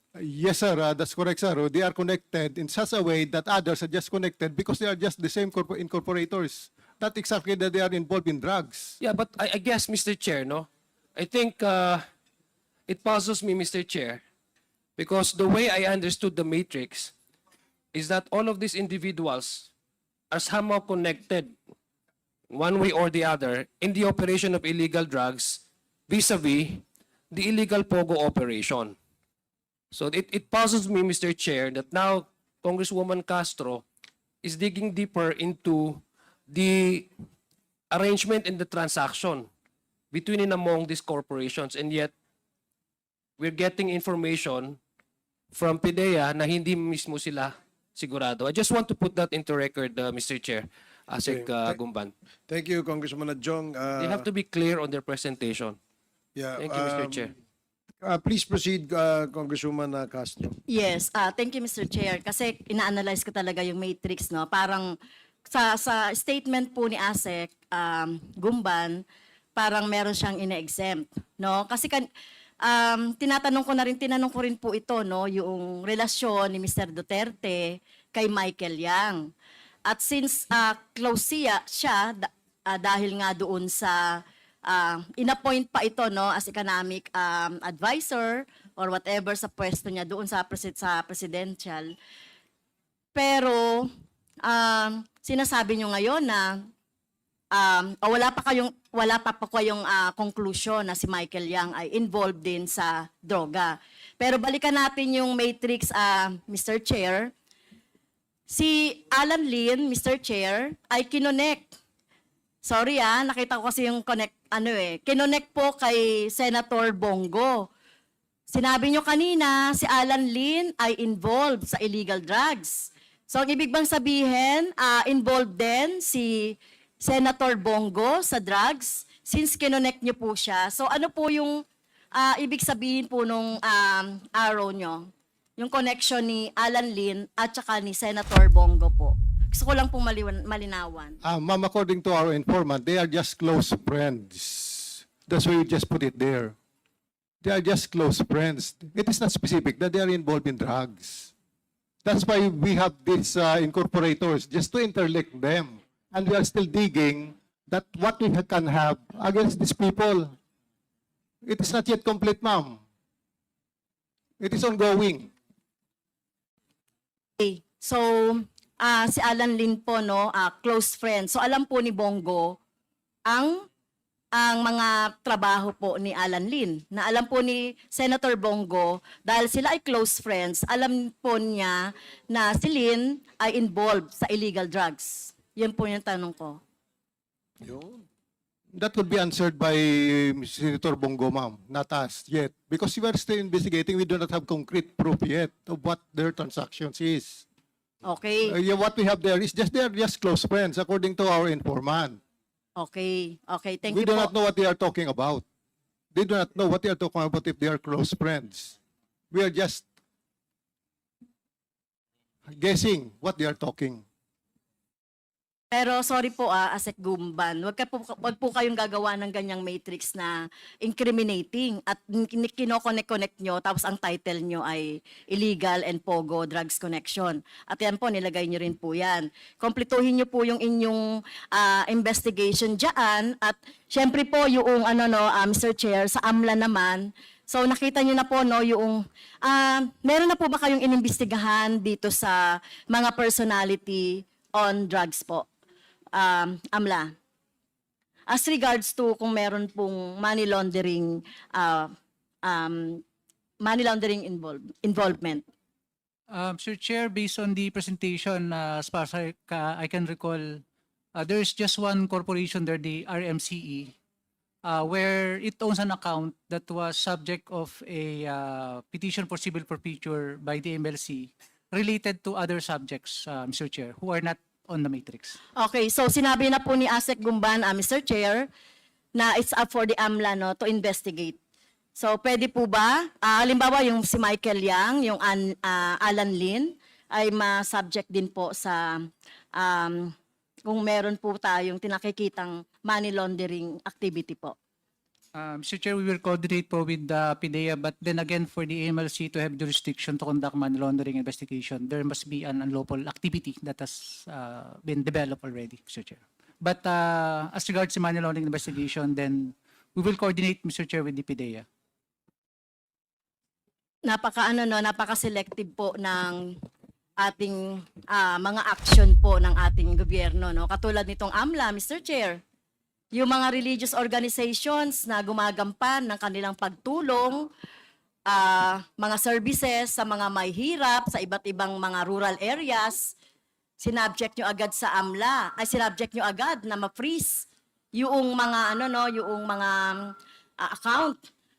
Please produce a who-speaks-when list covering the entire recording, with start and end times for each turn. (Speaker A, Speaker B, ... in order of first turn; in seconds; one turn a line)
Speaker A: 0.2-9.0
Speaker B: 9.0-12.0
Speaker B: 12.9-14.2
Speaker B: 15.0-17.1
Speaker B: 17.9-19.7
Speaker B: 20.3-21.5
Speaker B: 22.5-29.0
Speaker B: 29.9-33.8
Speaker B: 34.4-37.1
Speaker B: 37.9-39.5
Speaker B: 40.1-42.1
Speaker B: 43.4-44.8
Speaker B: 45.5-52.1
Speaker C: 51.3-51.8
Speaker C: 52.5-54.2
Speaker B: 54.0-55.8
Speaker C: 56.4-57.3
Speaker B: 56.6-57.3
Speaker C: 58.0-60.6
Speaker D: 60.7-65.0
Speaker D: 65.5-69.0
Speaker D: 69.6-72.1
Speaker D: 72.6-79.3
Speaker D: 79.9-91.9
Speaker D: 93.2-93.9
Speaker D: 94.5-96.6
Speaker D: 97.5-107.3
Speaker D: 108.5-111.8
Speaker D: 112.6-117.7
Speaker D: 118.5-131.6
Speaker D: 132.1-141.2
Speaker A: 141.2-146.6
Speaker A: 147.4-151.3
Speaker A: 152.0-160.3
Speaker A: 161.5-162.8
Speaker A: 164.4-165.3
Speaker D: 167.4-172.6
Speaker D: 173.3-173.6
Speaker D: 174.3-186.6
Speaker C: 187.6-188.0
Speaker A: 188.8-197.4
Speaker D: 198.1-198.5
Speaker A: 198.5-202.2
Speaker D: 202.8-204.3
Speaker A: 203.9-205.4
Speaker A: 206.1-208.8
Speaker A: 209.3-209.8
Speaker A: 212.5-214.0
Speaker D: 215.7-245.5
Speaker D: 246.2-247.1
Speaker D: 248.3-251.9
Speaker D: 252.4-253.0
Speaker D: 253.6-255.4
Speaker E: 256.3-260.6
Speaker E: 261.2-263.9
Speaker E: 264.7-275.4
Speaker D: 275.6-278.5
Speaker D: 279.2-281.4
Speaker D: 282.0-290.1
Speaker D: 290.7-294.6
Speaker E: 295.4-311.6
Speaker D: 314.1-316.5
Speaker D: 317.2-322.4
Speaker D: 323.1-327.5
Speaker D: 328.3-333.1
Speaker D: 333.8-341.2